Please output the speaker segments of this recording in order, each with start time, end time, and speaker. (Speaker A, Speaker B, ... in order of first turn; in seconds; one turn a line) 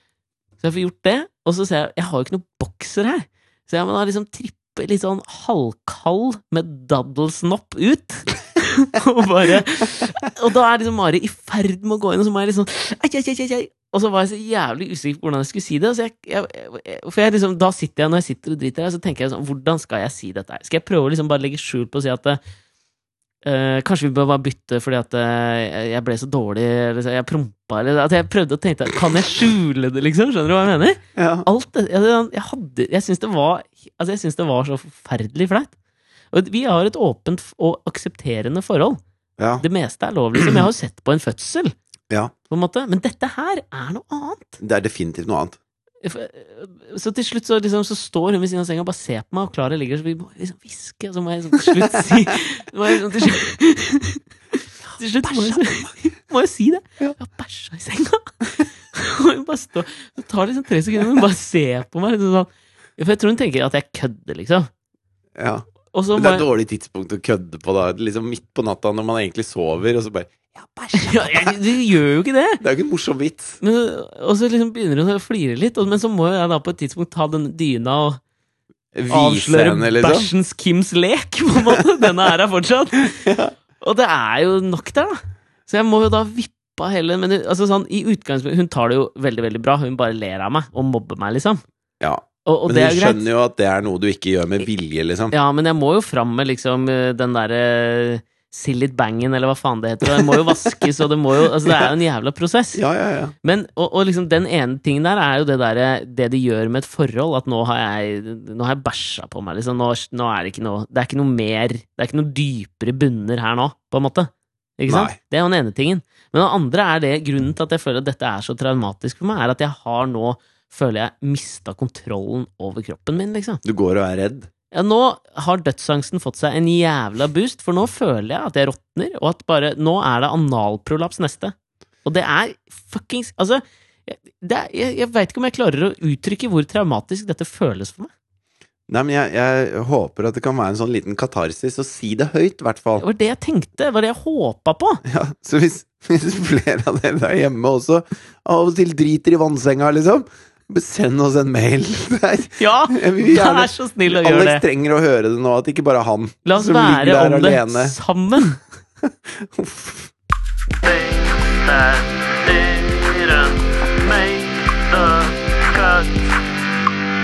Speaker A: 0.6-22.4
Speaker A: 23.4-35.7
Speaker B: 31.2-31.5
Speaker A: 36.3-39.0
Speaker B: 39.4-39.6
Speaker A: 39.6-41.8
Speaker A: 42.5-44.6
Speaker B: 44.6-45.6
Speaker A: 46.0-64.7
Speaker B: 51.6-52.3
Speaker B: 55.2-55.9
Speaker B: 65.4-65.7
Speaker A: 65.9-66.5
Speaker B: 66.2-71.7
Speaker A: 70.9-72.6
Speaker B: 72.6-73.6
Speaker A: 73.6-78.2
Speaker B: 78.9-80.3
Speaker A: 79.1-91.6
Speaker B: 83.2-83.5
Speaker B: 92.0-95.3
Speaker A: 92.5-93.3
Speaker A: 95.3-102.8
Speaker B: 100.1-100.8
Speaker B: 101.6-101.9
Speaker B: 102.8-103.3
Speaker A: 103.4-123.6
Speaker B: 114.9-115.2
Speaker B: 123.6-124.5
Speaker A: 124.7-138.1
Speaker B: 138.9-143.1
Speaker A: 143.0-145.0
Speaker B: 145.0-158.0
Speaker A: 152.6-154.6
Speaker A: 156.4-158.6
Speaker B: 159.0-160.1
Speaker A: 160.8-166.2